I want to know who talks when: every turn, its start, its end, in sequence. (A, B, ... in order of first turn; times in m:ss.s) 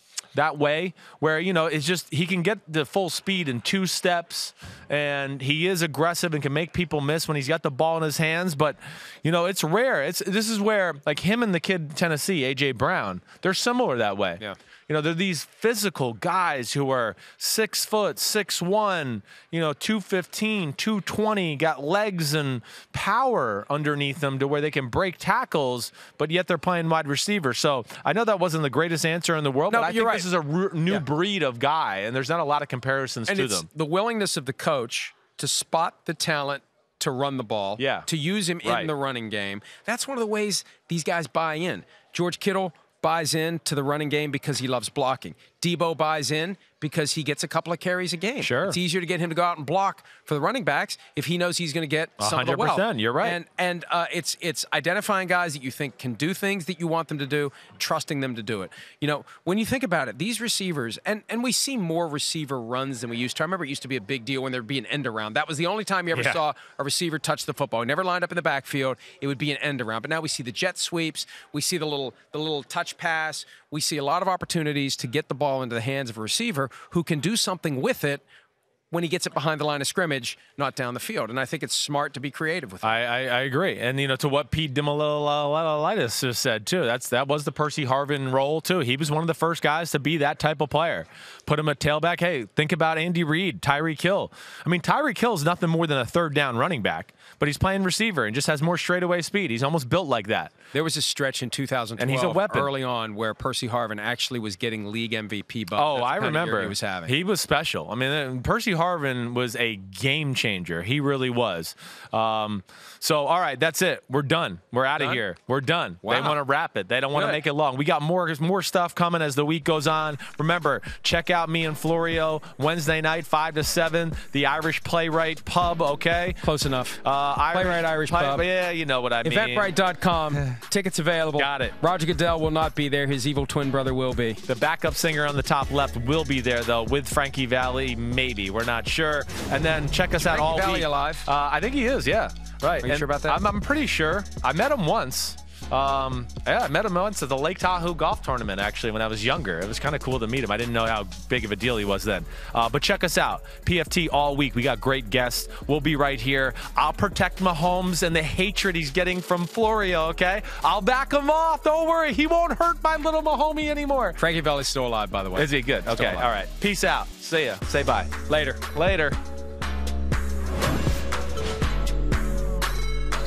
0:00.3-0:33.7 A
0:29.7-0:30.2 B
0:33.3-1:18.2 B
0:37.8-0:38.1 A
0:38.6-0:38.9 A
0:48.4-0:48.8 A
0:52.2-0:53.4 A
1:06.1-1:06.4 A
1:18.9-1:22.9 B
1:22.8-1:40.5 A
1:40.7-1:47.1 B
1:42.0-1:42.7 A
1:45.8-2:06.4 A
1:56.0-1:56.4 B
1:57.1-1:57.4 B
2:06.4-2:08.4 B
2:07.0-2:09.7 A
2:09.2-2:14.4 B
2:11.4-2:11.7 A
2:14.4-2:44.2 A
2:20.2-2:21.3 B
2:22.8-2:23.4 B
2:44.2-2:46.3 B
2:45.3-2:49.2 A
2:48.3-2:48.6 B